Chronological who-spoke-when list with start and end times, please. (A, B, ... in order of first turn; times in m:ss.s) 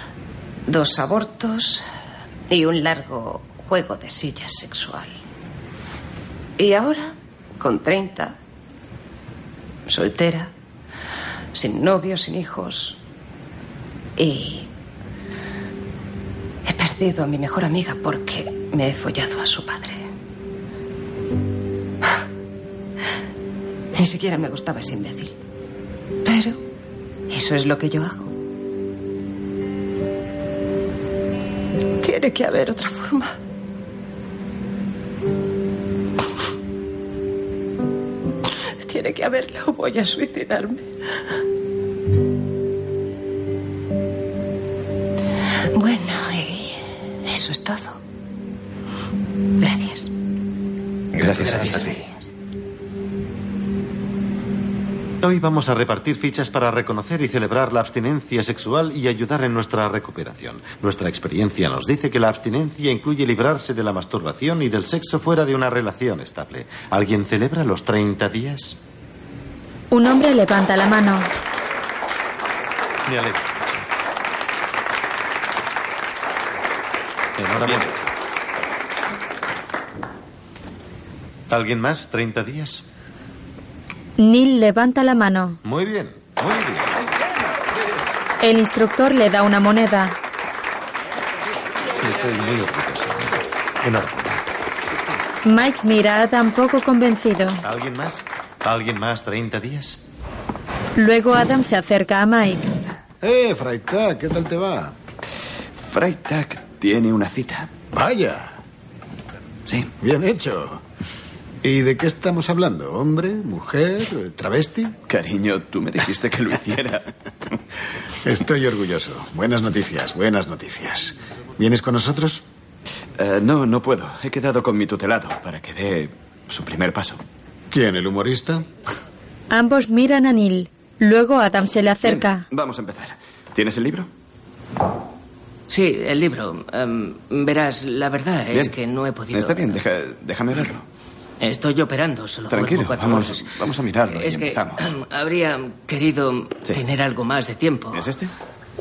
0:00.7-0:01.8 A
0:02.5-0:05.1 A
0:06.6-0:08.4 A
0:09.9-0:10.5 A
0:11.5-0:13.0 A
0:14.2-0:14.7 A
0:16.6-0:20.0 A
0:24.0-0:25.4 A
0:26.2-0:26.6 A
0:27.3-0:28.3 A
0:32.0-0:33.4 A
0:38.9-0:40.8 A
0:45.8-0:48.0 A
0:49.6-0:50.1 A
0:51.2-0:51.9 B
0:55.2-1:08.8 C
1:09.9-1:11.3 D
1:13.1-1:13.5 C
1:17.4-1:18.0 C
1:21.5-1:22.8 C
1:24.2-1:25.6 D
1:25.6-1:27.0 C
1:28.4-1:30.2 D
1:32.0-1:34.5 C
1:35.5-1:37.6 D
1:37.6-1:40.0 C
1:41.0-1:42.6 D
1:43.2-1:44.9 E
1:45.8-1:47.8 B
1:47.9-1:48.6 E
1:49.7-1:49.9 B
1:50.0-1:50.8 E
1:51.6-1:55.0 E
1:55.1-1:57.1 B
1:58.2-2:02.4 E
2:03.2-2:07.2 B
2:07.7-2:08.7 E
2:09.5-2:12.4 D
2:12.0-2:14.1 B
2:15.7-2:19.8 F
2:18.5-2:18.8 B
2:19.3-2:20.8 B
2:21.4-2:23.6 F
2:22.5-2:25.0 B
2:24.1-2:28.1 F
2:27.9-2:28.3 B